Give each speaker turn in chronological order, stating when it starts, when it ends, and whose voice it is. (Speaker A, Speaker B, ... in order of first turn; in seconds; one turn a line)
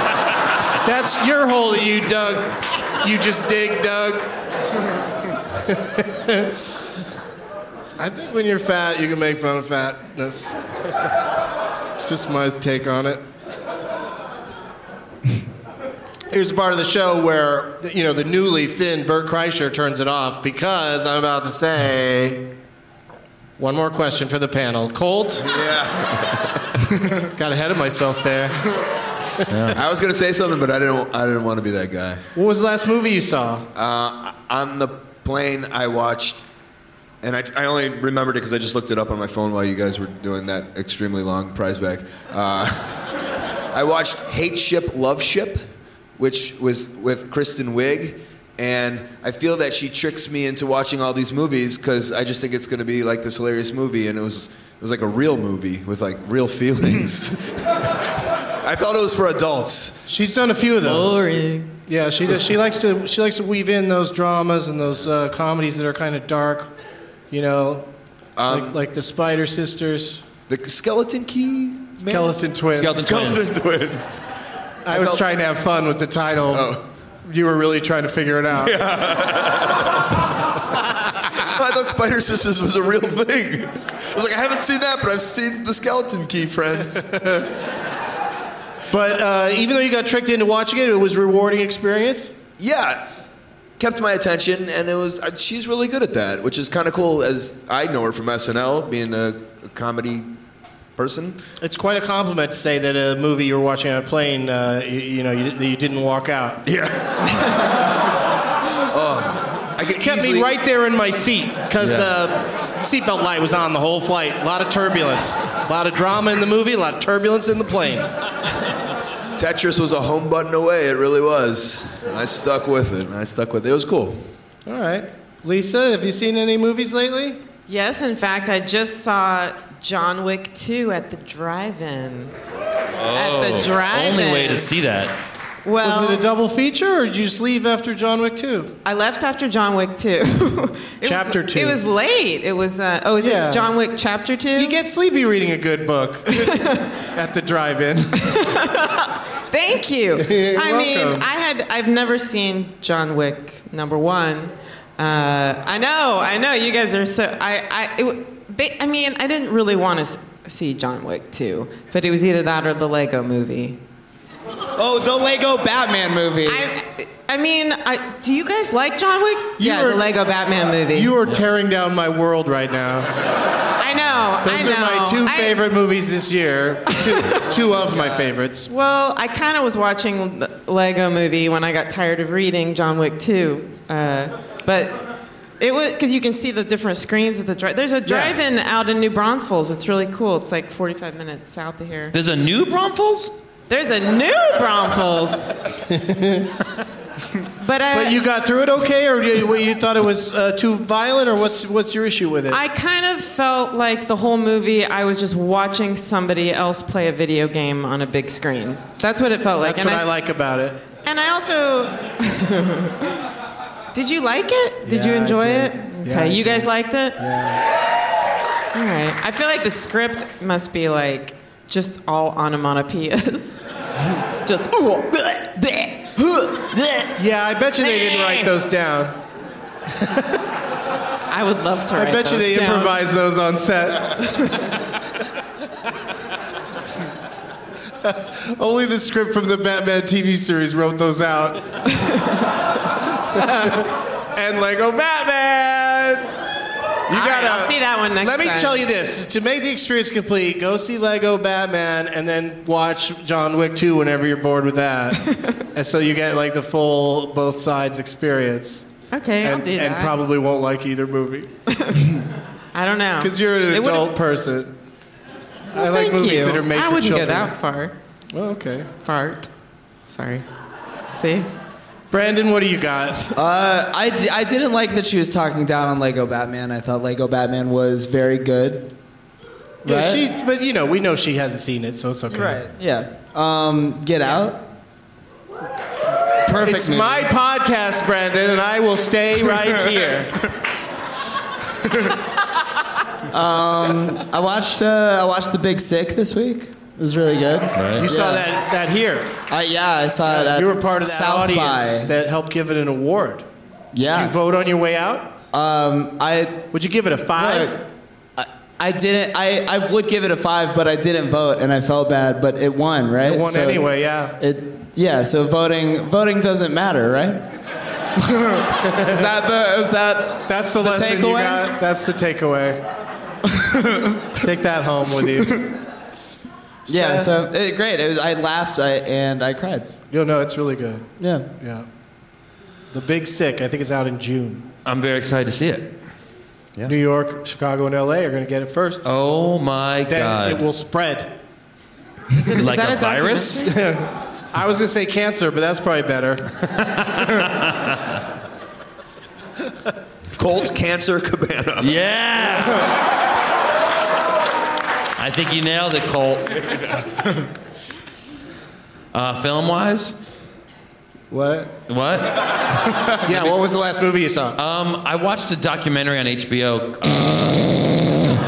Speaker A: 0.8-4.3
Speaker A: 5.7-6.5
Speaker A: 8.0-10.6
Speaker A: 11.9-13.2
Speaker A: 16.3-22.4
Speaker A: 23.6-25.6
Speaker B: 25.4-26.5
Speaker A: 27.3-28.6
Speaker C: 29.5-29.8
Speaker B: 29.7-32.2
Speaker A: 32.3-33.6
Speaker B: 33.7-36.4
Speaker B: 37.2-43.1
Speaker B: 43.7-45.6
Speaker B: 46.2-58.0
Speaker B: 58.6-60.0
Speaker A: 60.1-61.3
Speaker D: 60.9-61.7
Speaker A: 61.9-66.7
Speaker A: 67.3-67.9
Speaker B: 68.3-68.7
Speaker A: 68.5-70.2
Speaker B: 70.5-72.3
Speaker A: 72.0-73.1
Speaker C: 72.7-73.5
Speaker B: 73.0-74.2
Speaker A: 74.8-78.8
Speaker B: 74.9-75.2
Speaker B: 76.5-76.8
Speaker B: 78.6-79.9
Speaker B: 81.3-87.3
Speaker A: 88.9-92.3
Speaker B: 92.6-93.1
Speaker B: 93.8-100.3
Speaker B: 101.0-101.4
Speaker A: 101.6-106.6
Speaker B: 106.6-107.4
Speaker B: 108.9-110.5
Speaker A: 110.0-118.1
Speaker C: 111.8-112.1
Speaker B: 119.4-124.3
Speaker A: 124.7-127.4
Speaker D: 127.7-132.3
Speaker C: 133.0-135.2
Speaker D: 133.1-134.7
Speaker D: 135.6-136.2
Speaker A: 135.8-138.7
Speaker D: 138.8-144.8
Speaker A: 141.0-141.8
Speaker A: 143.2-143.7
Speaker A: 144.6-146.5
Speaker D: 146.3-146.9
Speaker A: 147.0-148.4
Speaker D: 148.2-163.8
Speaker A: 150.2-151.2
Speaker E: 164.7-166.7
Speaker D: 166.5-171.1
Speaker A: 169.6-170.1
Speaker A: 170.9-173.1
Speaker D: 173.8-175.6
Speaker A: 174.4-178.7
Speaker D: 176.9-177.4
Speaker D: 178.7-185.0
Speaker D: 185.6-192.1
Speaker A: 188.0-188.3
Speaker C: 192.1-193.3
Speaker D: 193.7-195.5
Speaker A: 195.9-196.6
Speaker D: 197.6-198.2
Speaker A: 197.9-202.6
Speaker D: 202.5-210.1
Speaker A: 209.6-210.8
Speaker D: 211.0-213.2
Speaker D: 213.9-217.2
Speaker A: 214.8-217.6
Speaker D: 218.7-223.6
Speaker D: 224.4-227.1
Speaker A: 227.2-229.2
Speaker D: 227.8-228.5
Speaker A: 229.9-230.4
Speaker D: 231.3-233.0
Speaker A: 231.9-234.3
Speaker A: 238.0-241.7
Speaker A: 243.3-246.3
Speaker A: 247.1-258.9
Speaker D: 247.1-248.9
Speaker D: 255.3-255.6
Speaker D: 259.1-260.1
Speaker A: 259.4-261.5
Speaker D: 261.7-262.2
Speaker D: 262.7-264.1
Speaker A: 263.2-264.7
Speaker A: 265.7-267.5
Speaker D: 265.7-267.9
Speaker A: 268.3-268.9
Speaker D: 269.0-269.5
Speaker D: 270.1-270.4
Speaker D: 271.1-271.5
Speaker A: 272.1-273.3
Speaker E: 273.3-278.9
Speaker E: 279.8-280.2
Speaker A: 279.8-282.6
Speaker E: 282.3-284.6
Speaker E: 286.4-287.3
Speaker A: 286.6-290.4
Speaker E: 293.3-298.5
Speaker C: 297.8-298.1
Speaker A: 298.0-299.3
Speaker E: 299.5-302.1
Speaker A: 300.2-303.4
Speaker E: 303.9-304.3
Speaker A: 304.1-305.3
Speaker E: 305.5-306.7
Speaker A: 306.7-307.8
Speaker E: 307.4-307.8
Speaker E: 308.4-317.4
Speaker A: 313.2-314.4
Speaker E: 318.2-321.7
Speaker A: 318.9-319.2
Speaker A: 320.4-322.8
Speaker E: 323.5-324.3
Speaker A: 324.4-325.6
Speaker A: 326.9-327.4
Speaker E: 326.9-329.9
Speaker A: 330.1-331.9
Speaker E: 331.2-331.5
Speaker A: 332.9-334.7
Speaker C: 334.8-336.0
Speaker A: 336.9-339.0
Speaker C: 339.0-340.6
Speaker A: 340.1-341.3
Speaker D: 342.3-343.7
Speaker C: 342.5-343.6
Speaker A: 343.6-346.5
Speaker C: 346.8-348.0
Speaker B: 350.4-352.0
Speaker C: 351.8-352.9
Speaker C: 355.2-356.6
Speaker C: 359.1-360.2
Speaker A: 361.3-361.7
Speaker C: 361.9-363.5
Speaker A: 363.2-364.6
Speaker C: 364.6-368.0